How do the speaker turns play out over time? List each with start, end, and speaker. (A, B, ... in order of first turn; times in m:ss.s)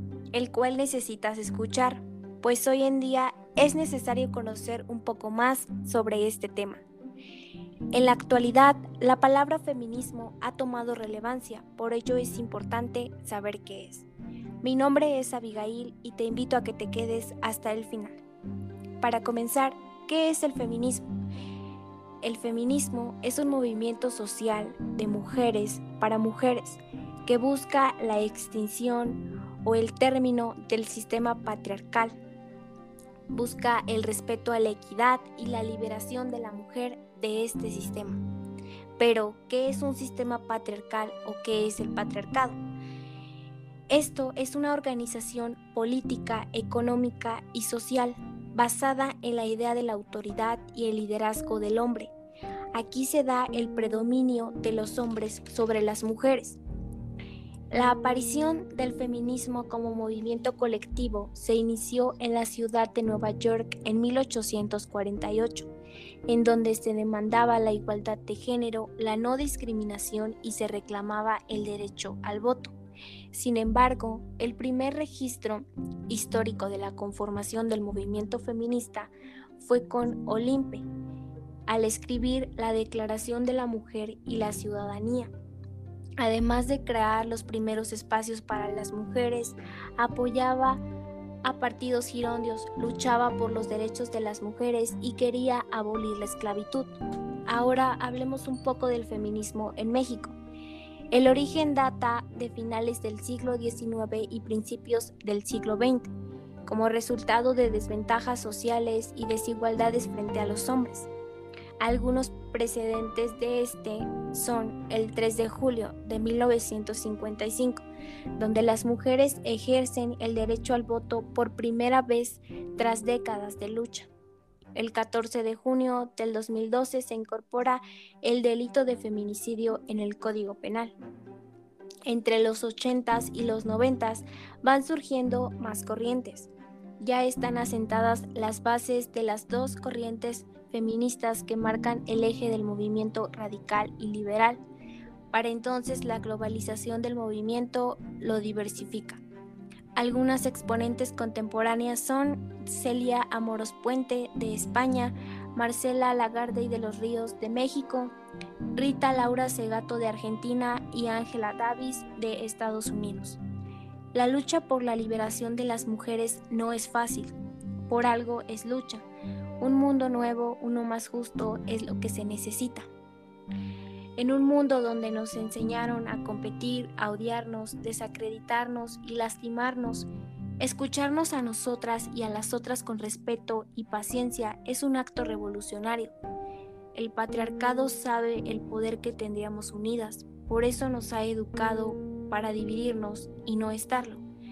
0:00.3-0:06.8 A
0:07.9-0:14.1 A
0:14.6-0:18.2 A
0:19.0-0:21.0 A
0:22.2-0:32.1 A
0:33.3-0:38.2 A
0:39.0-0:42.6 A
0:43.9-0:52.1 A
0:52.7-0:56.6 A
0:57.7-1:05.7 A
1:06.3-1:12.8 A
1:13.3-1:20.9 A
1:21.7-1:25.3 A
1:26.2-1:30.8 A
1:31.4-1:36.9 A
1:37.5-1:40.4 A
1:41.1-1:46.1 A
1:46.6-1:51.1 A
1:51.8-2:04.1 A
2:04.7-2:11.0 A
2:12.1-2:24.6 A
2:25.3-2:29.2 A
2:30.0-2:38.2 A
2:38.8-2:43.4 A
2:44.1-2:47.3 A
2:47.9-2:49.0 A
2:49.6-2:52.9 A
2:54.2-3:00.1 A
3:00.6-3:06.2 A
3:06.9-3:14.2 A